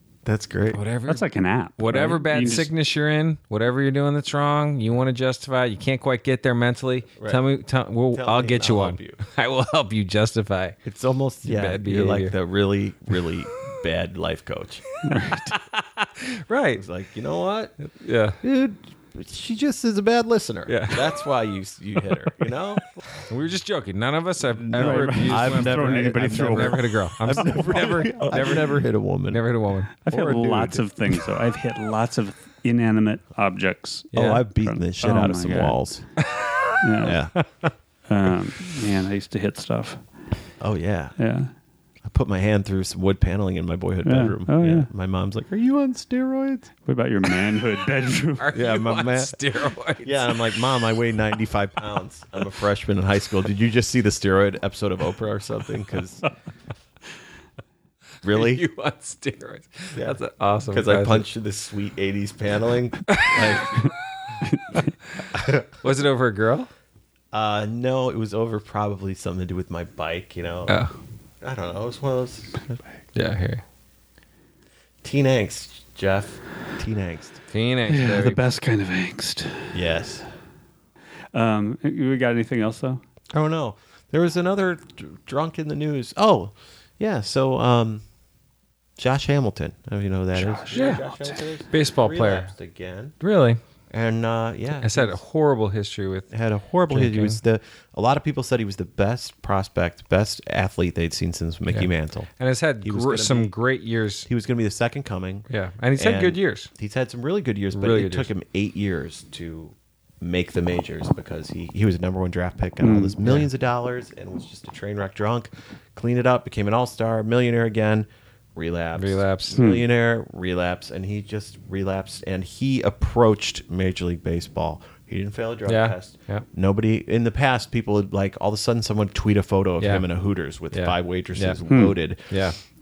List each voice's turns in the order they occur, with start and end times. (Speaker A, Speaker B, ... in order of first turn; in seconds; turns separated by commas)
Speaker A: 0.2-0.8, Speaker B: 0.7-1.3, Speaker C: 1.1-2.7, Speaker B: 1.8-10.8, Speaker A: 7.2-7.4, Speaker A: 8.1-9.2, Speaker A: 10.8-14.9, Speaker B: 11.4-12.3, Speaker C: 15.0-15.6, Speaker B: 15.5-16.8, Speaker A: 16.8-17.9, Speaker B: 17.9-18.4, Speaker A: 18.4-23.2, Speaker B: 20.7-21.1, Speaker B: 23.3-29.9, Speaker A: 24.5-29.5, Speaker C: 24.7-28.3, Speaker C: 30.0-35.8, Speaker A: 30.1-30.9, Speaker A: 34.1-36.2, Speaker B: 34.1-34.4, Speaker B: 36.3-36.8, Speaker C: 36.8-37.2, Speaker A: 37.0-37.5, Speaker C: 38.1-40.0, Speaker A: 40.6-41.2, Speaker C: 41.2-41.5, Speaker A: 42.0-46.7, Speaker C: 44.0-44.9, Speaker C: 46.9-48.5, Speaker B: 48.4-50.6, Speaker A: 48.5-49.4, Speaker A: 50.0-56.3, Speaker A: 58.2-58.6, Speaker B: 58.2-61.3, Speaker A: 60.0-63.9, Speaker B: 63.1-63.9, Speaker C: 64.4-64.9, Speaker A: 65.3-65.7, Speaker B: 65.8-66.7, Speaker A: 67.3-70.8, Speaker B: 70.7-70.9, Speaker A: 71.4-72.8, Speaker B: 73.2-73.6, Speaker A: 75.0-77.4, Speaker B: 77.5-78.4, Speaker C: 77.9-79.8, Speaker A: 79.7-80.3, Speaker C: 81.3-83.0, Speaker A: 83.3-88.0, Speaker A: 89.0-93.2, Speaker C: 90.3-91.4, Speaker B: 90.7-91.0, Speaker B: 91.7-92.5, Speaker B: 93.2-93.6, Speaker A: 93.9-95.2, Speaker B: 94.8-96.3, Speaker A: 96.3-102.3, Speaker B: 96.9-97.4, Speaker B: 101.7-104.3, Speaker A: 102.8-103.5, Speaker A: 104.3-132.4, Speaker B: 105.5-106.7, Speaker B: 107.7-108.3, Speaker C: 112.8-113.2, Speaker B: 113.2-113.5, Speaker B: 119.0-119.6, Speaker C: 119.6-119.9, Speaker B: 125.7-126.5, Speaker B: 129.8-130.1, Speaker B: 130.7-131.6, Speaker C: 131.7-132.0, Speaker B: 132.3-132.6